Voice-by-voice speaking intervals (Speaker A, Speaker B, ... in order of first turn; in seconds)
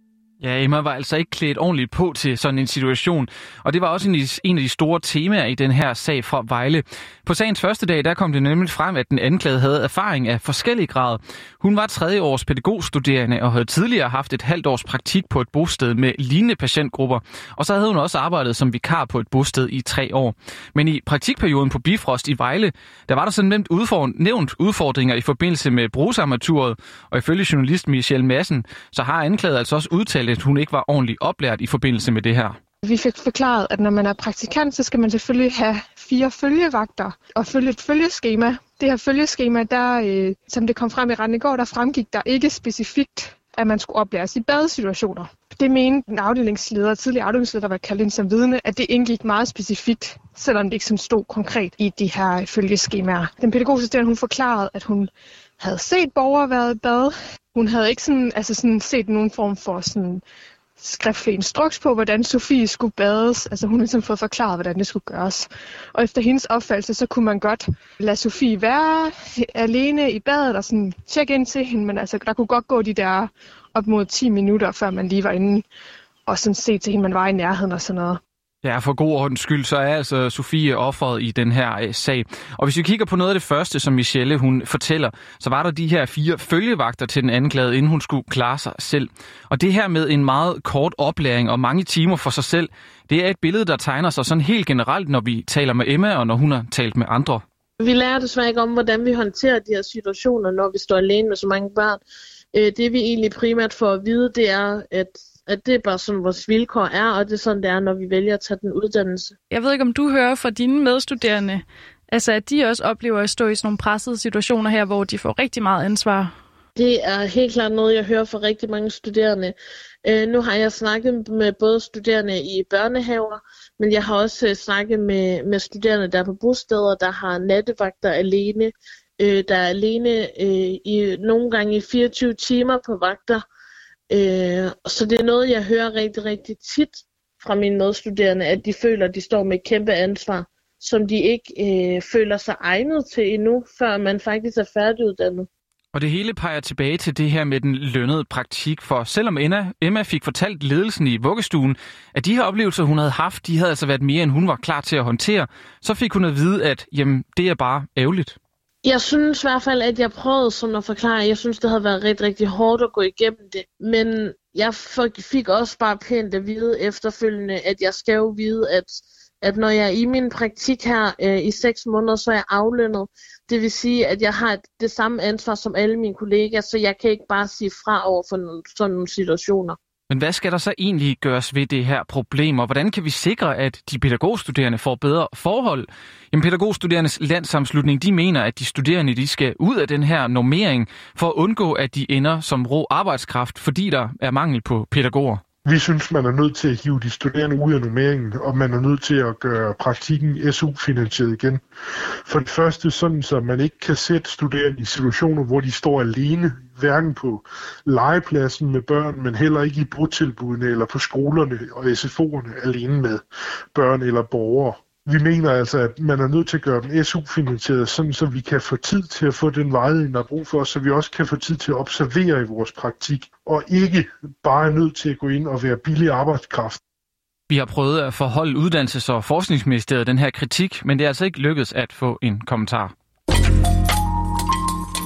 Speaker A: 0.4-32.5, 78.6-97.4, 145.9-158.4, 180.1-195.4, 227.5-232.9
Speaker B: 32.8-60.2, 60.8-75.6, 76.3-78.2
Speaker C: 97.8-102.0, 102.5-109.3, 116.8-119.5, 120.0-133.4, 134.1-145.5, 158.8-179.8
Speaker D: 109.5-116.3
Speaker E: 195.6-201.6, 202.2-213.2, 213.7-226.8